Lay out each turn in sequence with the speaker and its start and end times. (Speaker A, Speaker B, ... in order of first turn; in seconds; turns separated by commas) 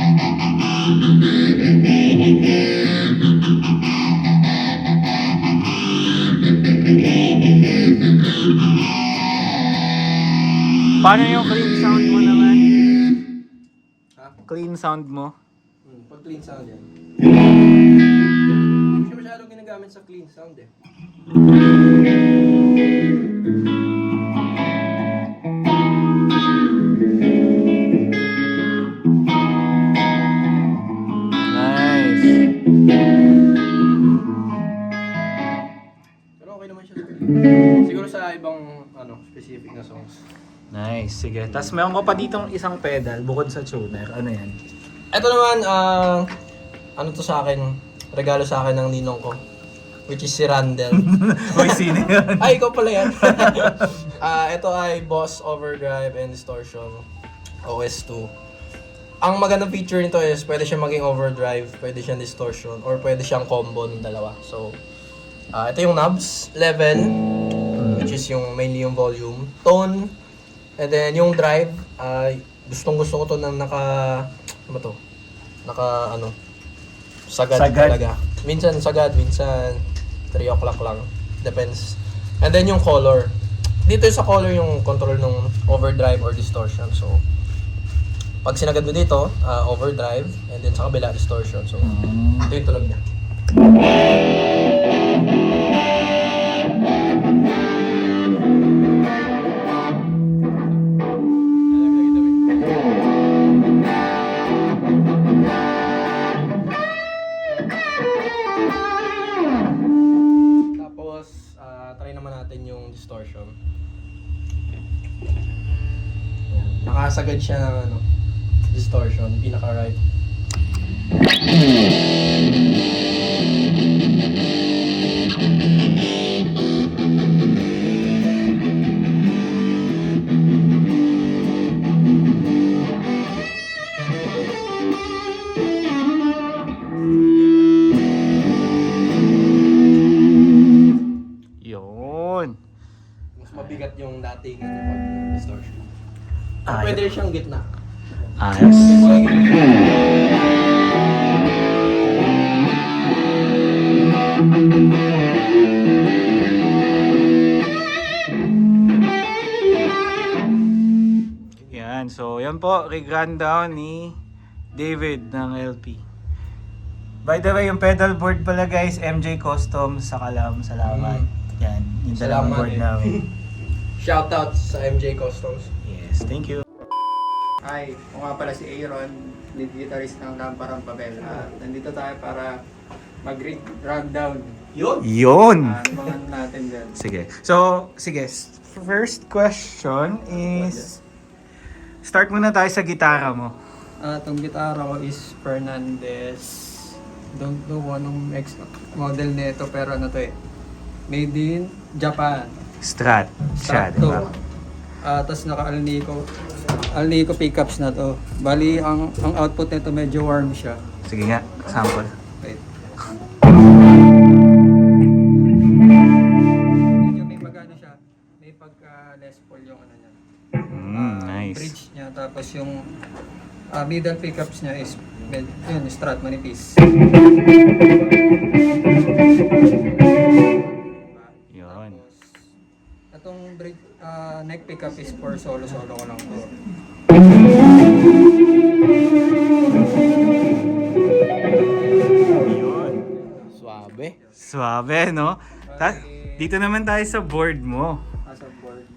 Speaker A: 11.0-12.8, Speaker A: 14.5-15.3, Speaker B: 15.8-16.9, Speaker B: 18.9-20.7, Speaker A: 31.5-32.4, Speaker B: 36.4-40.2, Speaker A: 40.7-44.6, Speaker B: 45.1-46.3, Speaker B: 47.0-49.4, Speaker B: 50.1-57.1, Speaker A: 51.0-54.0, Speaker B: 57.6-58.3, Speaker B: 59.2-64.8, Speaker B: 65.5-67.2, Speaker A: 67.8-68.1, Speaker B: 67.9-70.1, Speaker B: 70.8-75.0, Speaker B: 75.6-76.3, Speaker B: 77.3-87.2, Speaker A: 77.5-78.0, Speaker B: 88.4-93.0, Speaker A: 91.8-92.5, Speaker B: 100.5-100.8, Speaker B: 101.7-102.9, Speaker B: 110.7-113.6, Speaker B: 116.5-118.0, Speaker B: 118.7-120.0, Speaker A: 141.6-142.6, Speaker B: 143.4-145.9, Speaker A: 143.5-143.8, Speaker A: 146.7-147.1, Speaker B: 146.7-147.7, Speaker A: 148.4-149.3, Speaker B: 148.7-149.9, Speaker A: 161.7-164.2, Speaker A: 164.7-166.0, Speaker A: 167.2-173.2, Speaker B: 170.8-171.3, Speaker B: 172.1-173.3, Speaker B: 174.0-175.7, Speaker A: 175.8-176.6, Speaker C: 177.6-182.6, Speaker C: 183.2-184.8, Speaker A: 185.0-185.9, Speaker C: 185.5-187.0, Speaker A: 186.9-191.0, Speaker A: 192.0-193.6, Speaker C: 194.0-200.3, Speaker C: 201.1-202.5, Speaker A: 202.8-204.3, Speaker C: 203.6-204.3, Speaker C: 205.0-210.8, Speaker A: 211.0-212.1, Speaker C: 217.0-220.2, Speaker A: 220.7-221.7, Speaker C: 220.8-222.8, Speaker C: 223.7-226.8, Speaker C: 230.1-232.5, Speaker A: 231.5-232.0, Speaker C: 233.1-236.6, Speaker C: 240.4-244.4, Speaker A: 242.4-243.0, Speaker B: 243.5-244.2, Speaker A: 244.4-248.0, Speaker C: 245.7-246.5, Speaker C: 248.2-248.9